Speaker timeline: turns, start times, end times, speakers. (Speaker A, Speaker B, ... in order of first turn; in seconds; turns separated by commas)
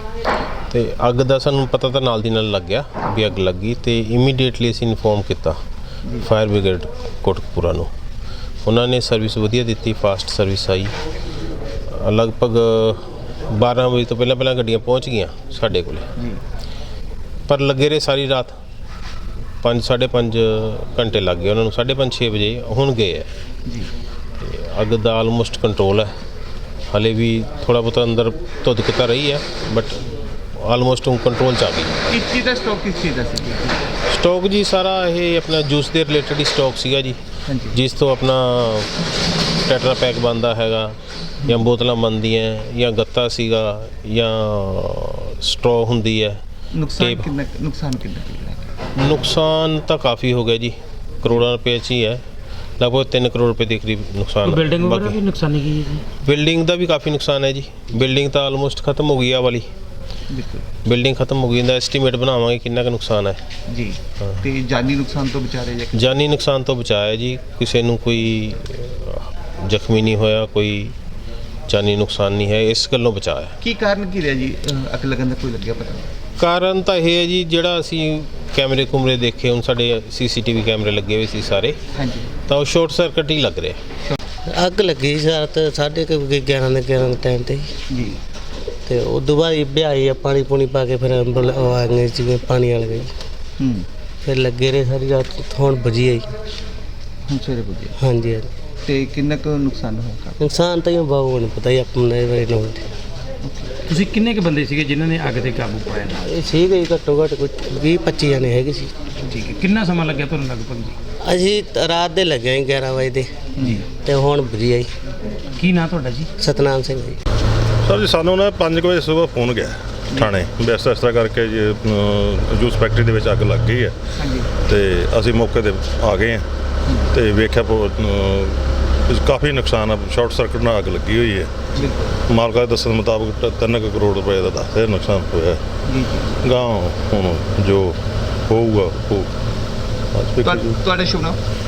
Speaker A: 0.7-5.6, Speaker A: 6.1-7.9, Speaker A: 8.6-11.0, Speaker A: 11.9-16.1, Speaker A: 17.5-18.6, Speaker A: 19.6-23.3, Speaker B: 23.7-23.9, Speaker A: 24.4-26.1, Speaker A: 26.9-30.0, Speaker A: 30.6-32.1, Speaker B: 32.1-33.9, Speaker A: 34.0-37.2, Speaker B: 37.5-37.8, Speaker A: 37.7-46.4, Speaker B: 46.7-48.7, Speaker A: 47.0-47.3, Speaker A: 49.0-52.2, Speaker A: 52.8-55.2, Speaker C: 54.5-56.1, Speaker A: 56.1-59.7, Speaker B: 60.3-60.7, Speaker A: 60.9-63.4, Speaker B: 63.7-66.0, Speaker A: 65.9-71.0, Speaker A: 71.7-73.5, Speaker B: 73.6-76.1, Speaker A: 76.4-81.8, Speaker B: 82.0-82.3, Speaker A: 82.5-83.8, Speaker D: 84.5-87.7, Speaker B: 87.9-88.2, Speaker D: 88.8-93.1, Speaker B: 93.6-93.9, Speaker D: 94.2-96.3, Speaker B: 97.3-98.0, Speaker D: 98.0-98.5, Speaker B: 98.9-100.4, Speaker D: 100.4-102.8, Speaker B: 103.4-103.8, Speaker C: 103.8-106.2, Speaker D: 106.1-108.9, Speaker C: 109.2-111.0, Speaker D: 111.2-113.3, Speaker B: 113.6-113.8, Speaker D: 113.9-114.9, Speaker C: 115.5-116.3, Speaker D: 116.4-117.2, Speaker E: 117.8-126.5, Speaker B: 120.1-120.4, Speaker B: 124.2-124.6, Speaker E: 127.1-131.7, Speaker B: 131.7-132.2, Speaker E: 132.3-135.7, Speaker B: 135.8-136.5, Speaker E: 136.4-139.3, Speaker E: 140.1-140.8, Speaker B: 140.4-141.4